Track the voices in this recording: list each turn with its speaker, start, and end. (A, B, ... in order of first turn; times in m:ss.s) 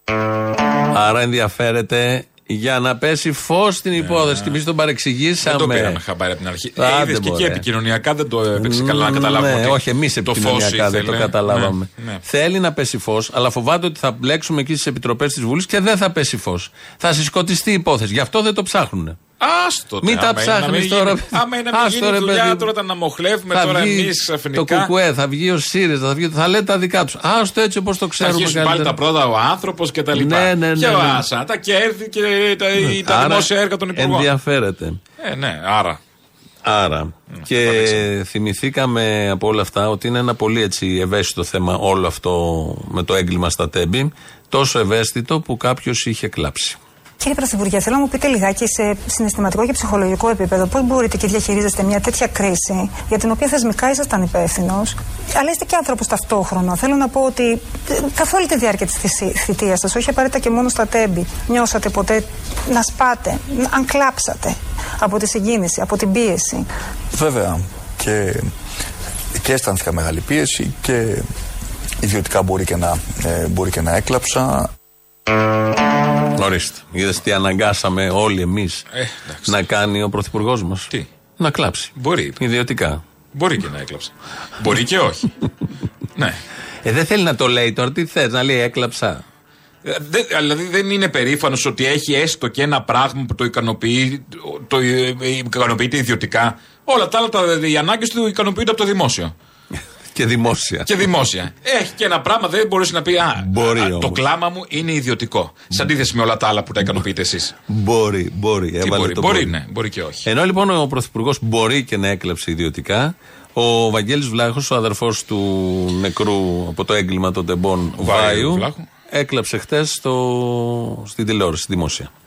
0:00.9-0:06.0 A
0:04.0-0:04.6 B
0:05.4-0:12.2 B
0:06.8-0:07.6 A
0:08.6-0:19.2 A
0:19.4-0:24.9 B
0:20.0-0:22.7 A
0:23.5-0:29.0 A
0:28.2-0:34.3 B
0:30.1-0:31.2 A
0:32.8-0:35.0 A
0:35.2-0:36.0 B
0:36.6-0:46.8 A
0:37.3-0:38.0 B
0:47.2-1:06.6 C
1:07.1-1:08.4 D
1:09.4-1:11.2 D
1:12.0-1:14.7 D
1:16.4-1:18.8 A
1:18.9-1:19.6 B
1:19.4-1:23.0 A
1:22.0-1:22.4 B
1:23.3-1:25.3 B
1:26.8-1:29.2 A
1:29.8-1:39.3 B
1:40.1-1:40.9 A
1:40.9-1:47.5 B
1:43.4-1:44.2 A
1:47.7-1:49.5 A
1:48.8-1:50.2 B
1:50.2-2:02.1 A
1:58.0-1:58.8 B